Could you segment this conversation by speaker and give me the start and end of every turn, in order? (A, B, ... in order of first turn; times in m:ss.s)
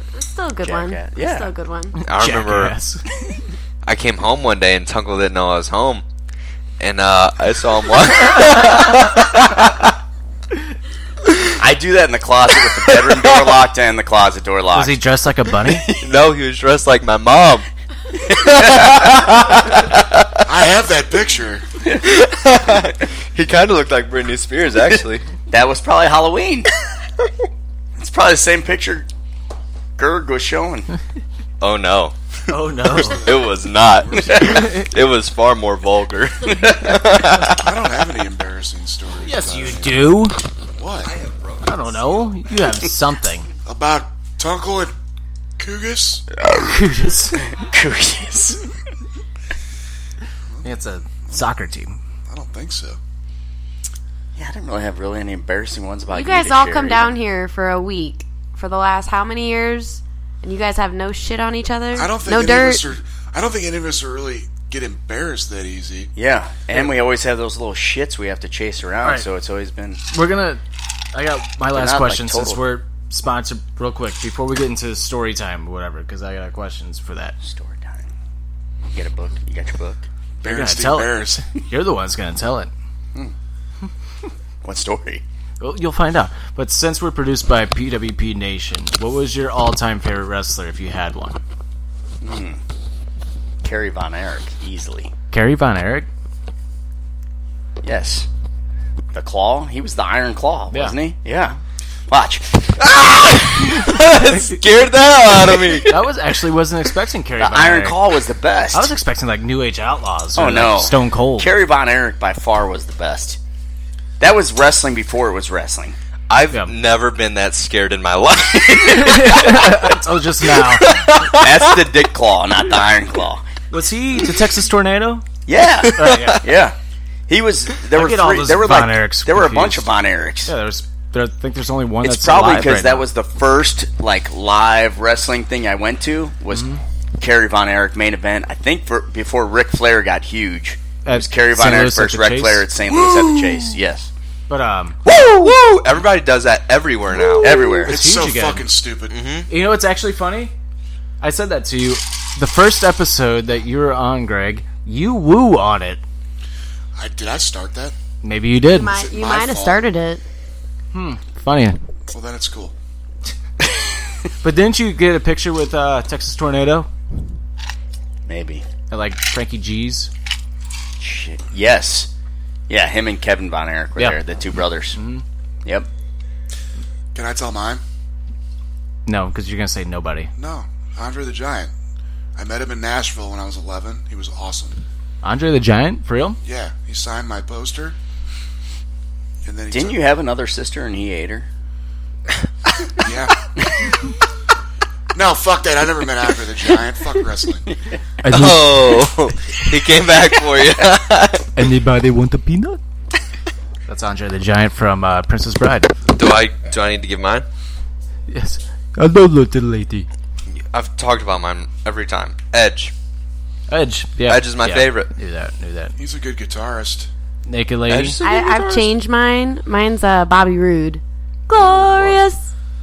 0:00.2-0:02.0 A
0:00.6-0:01.5 B
0:02.0-0:03.0 C
0:02.0-0:02.8 D
0:03.8-0:06.0 D
0:06.8-0:09.9 D
0:11.6-0:15.0 B
0:14.7-0:15.9 C
0:16.0-0:17.7 D
0:18.3-0:19.2 B
0:18.3-0:20.4 D
0:20.5-0:21.7 E
0:22.0-0:25.2 D
0:25.5-0:26.7 B
0:28.0-0:29.1 B
0:30.0-0:30.9 B
0:31.6-0:32.2 D
0:32.5-0:33.2 C
0:32.9-0:37.6 D
0:33.0-0:34.6 E
0:34.3-0:34.7 B
0:36.5-0:37.0 B
0:37.6-0:40.2 E
0:39.2-0:40.4 C
0:40.8-0:41.1 E
0:41.0-0:42.2 D
0:41.6-0:43.5 C
0:43.7-0:44.9 E
0:45.6-0:46.2 E
0:46.4-0:46.8 B
0:46.6-0:47.4 C
0:47.4-0:48.6 B
0:50.6-0:52.0 C
0:52.3-0:53.0 E
0:54.4-0:57.1 B
0:56.1-1:02.8 A
1:02.0-1:06.1 E
1:06.2-1:10.0 B
1:10.1-1:10.6 C
1:11.1-1:17.4 C
1:11.7-1:12.6 B
1:17.4-1:18.1 B
1:18.9-1:20.0 B
1:20.4-1:21.4 E
1:20.4-1:22.7 C
1:24.6-1:25.2 B
1:25.6-1:31.4 C
1:32.2-1:32.6 B
1:33.6-1:35.1 B
1:35.3-1:36.1 C
1:37.8-1:38.3 B
1:39.1-1:41.6 B
1:40.7-1:41.0 C
1:42.1-1:42.9 B
1:42.8-1:45.9 D
1:44.1-1:44.6 C
1:45.8-1:48.0 C
1:47.4-1:48.9 B
1:48.7-1:51.5 C
1:50.4-1:53.4 B
1:54.2-1:56.0 B
1:56.3-1:59.7 D
1:58.8-2:00.9 C
2:00.8-2:01.7 D
2:01.3-2:03.4 B
2:03.7-2:05.2 C
2:05.5-2:06.8 B
2:06.0-2:06.4 C
2:07.3-2:10.5 B
2:07.9-2:09.9 C
2:10.5-2:13.1 C
2:12.0-2:16.7 B
2:16.5-2:16.8 C
2:17.2-2:24.1 B
2:21.0-2:22.7 C
2:24.5-2:25.0 C
2:25.0-2:27.6 D
2:27.4-2:28.0 B
2:27.8-2:29.2 E
2:27.9-2:28.7 C
2:29.1-2:29.5 D
2:29.5-2:30.5 C
2:31.2-2:36.0 C
2:37.0-2:38.0 E
2:38.2-2:38.9 C
2:38.7-2:40.2 A
2:38.8-2:39.9 E
2:40.9-2:41.8 C
2:42.1-2:42.7 E
2:44.4-2:46.9 C
2:48.3-2:48.6 B
2:48.9-2:50.1 C
2:51.0-2:52.1 B
2:52.7-2:55.0 B
2:54.9-2:55.2 C
2:57.1-2:57.8 E
2:59.1-3:00.3 C
3:00.4-3:01.7 E
3:02.4-3:04.8 E
3:05.2-3:06.4 C
3:06.4-3:08.0 E
3:09.4-3:10.0 E
3:09.7-3:11.5 B
3:13.0-3:13.5 E
3:15.1-3:17.7 E
3:17.7-3:18.0 B
3:18.2-3:19.2 C
3:18.3-3:21.5 D
3:21.6-3:22.8 C
3:23.9-3:26.0 C
3:26.1-3:27.5 D
3:28.3-3:30.1 C
3:30.6-3:32.9 D
3:33.7-3:36.0 C
3:34.3-3:35.1 D
3:36.0-3:37.1 E
3:37.5-3:38.2 C
3:37.9-3:38.9 D
3:38.2-3:42.4 A